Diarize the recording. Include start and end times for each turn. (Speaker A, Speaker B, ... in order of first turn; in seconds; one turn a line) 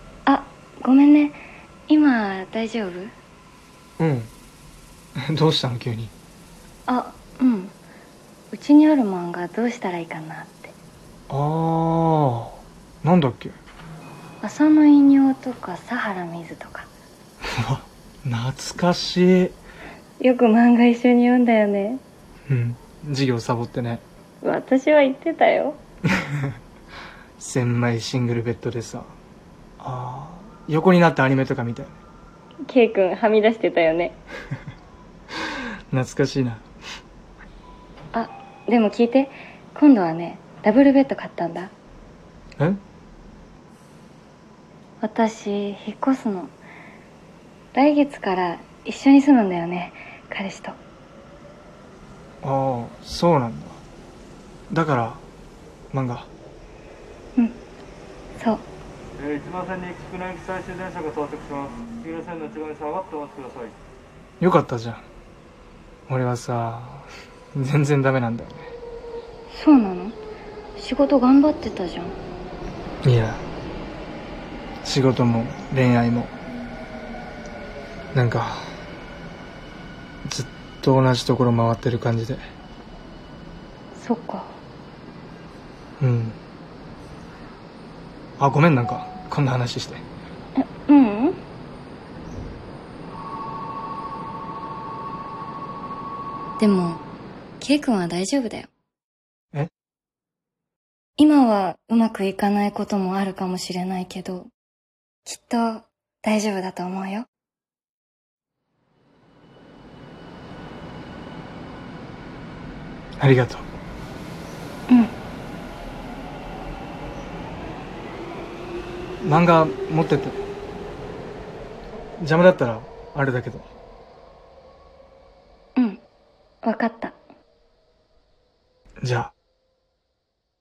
Speaker A: 0.2-3.1
Speaker B: 4.0-4.3
Speaker B: 5.3-6.1
Speaker A: 6.9-7.7
Speaker A: 8.5-10.7
Speaker B: 11.3-13.6
Speaker A: 14.4-16.9
Speaker B: 17.6-19.5
Speaker A: 20.2-22.0
Speaker B: 22.5-24.0
Speaker A: 24.4-25.8
Speaker B: 27.4-29.1
Speaker B: 29.8-32.0
Speaker A: 32.7-34.2
Speaker B: 35.9-36.6
Speaker A: 38.1-41.7
Speaker A: 45.0-46.5
Speaker A: 47.7-50.8
Speaker B: 52.4-53.8
Speaker B: 54.7-55.2
Speaker B: 55.9-56.3
Speaker A: 58.4-58.7
Speaker C: 59.2-63.7
Speaker B: 64.4-65.0
Speaker B: 66.1-68.7
Speaker A: 69.5-70.2
Speaker A: 70.8-72.2
Speaker B: 73.0-73.4
Speaker B: 74.8-76.3
Speaker B: 78.1-78.7
Speaker B: 80.2-82.4
Speaker A: 83.9-84.5
Speaker B: 86.0-86.4
Speaker B: 88.4-90.0
Speaker A: 90.6-91.4
Speaker A: 96.6-97.0
Speaker A: 97.6-98.7
Speaker A: 101.2-104.5
Speaker A: 105.2-107.3
Speaker B: 113.2-113.7
Speaker A: 114.9-115.2
Speaker B: 119.2-120.4
Speaker B: 122.2-123.7
Speaker A: 125.8-126.0
Speaker A: 126.6-127.1
Speaker B: 129.0-129.3